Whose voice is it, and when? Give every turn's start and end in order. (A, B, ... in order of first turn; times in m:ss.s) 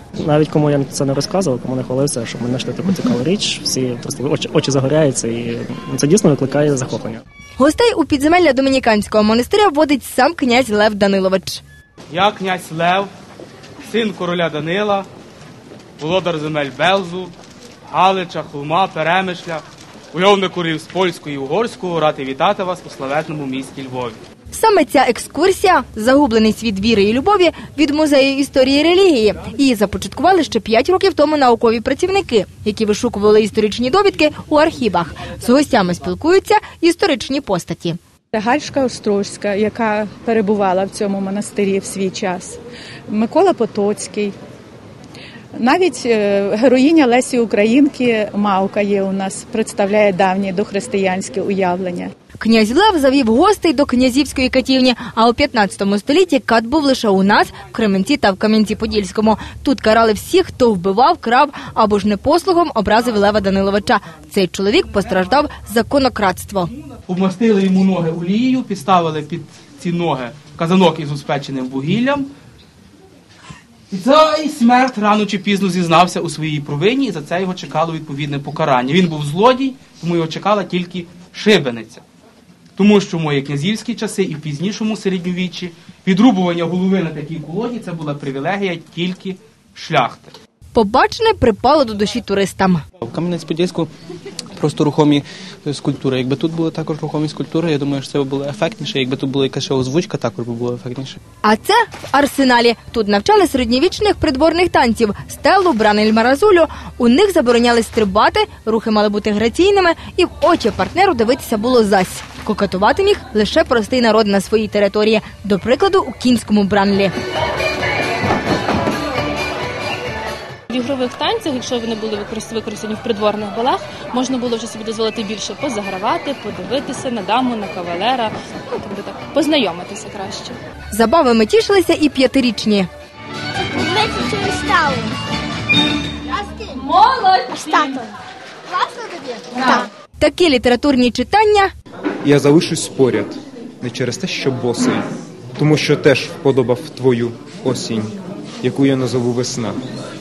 0:00.2-0:07.2 A
0:07.6-0:11.6 B
0:12.1-0:13.1 C
0:13.8-0:15.1 C
0:16.0-0:17.3 C
0:17.9-0:24.2 C
0:24.5-0:38.0 B
0:38.3-0:44.4 D
0:45.5-0:52.1 D
0:52.4-1:06.7 B
1:07.1-1:12.3 C
1:13.9-1:22.0 C
1:22.8-1:30.4 C
1:30.7-1:32.8 B
1:33.0-1:33.9 E
1:34.6-1:41.2 E
1:41.4-1:57.1 B
2:00.7-2:10.6 F
2:10.9-2:12.9 B
2:13.8-2:15.1 G
2:16.4-2:16.8 G
2:16.9-2:18.0 F
2:17.5-2:18.0 G
2:18.7-2:19.9 G
2:20.2-2:21.7 B
2:22.2-2:25.1 H
2:25.6-2:29.8 H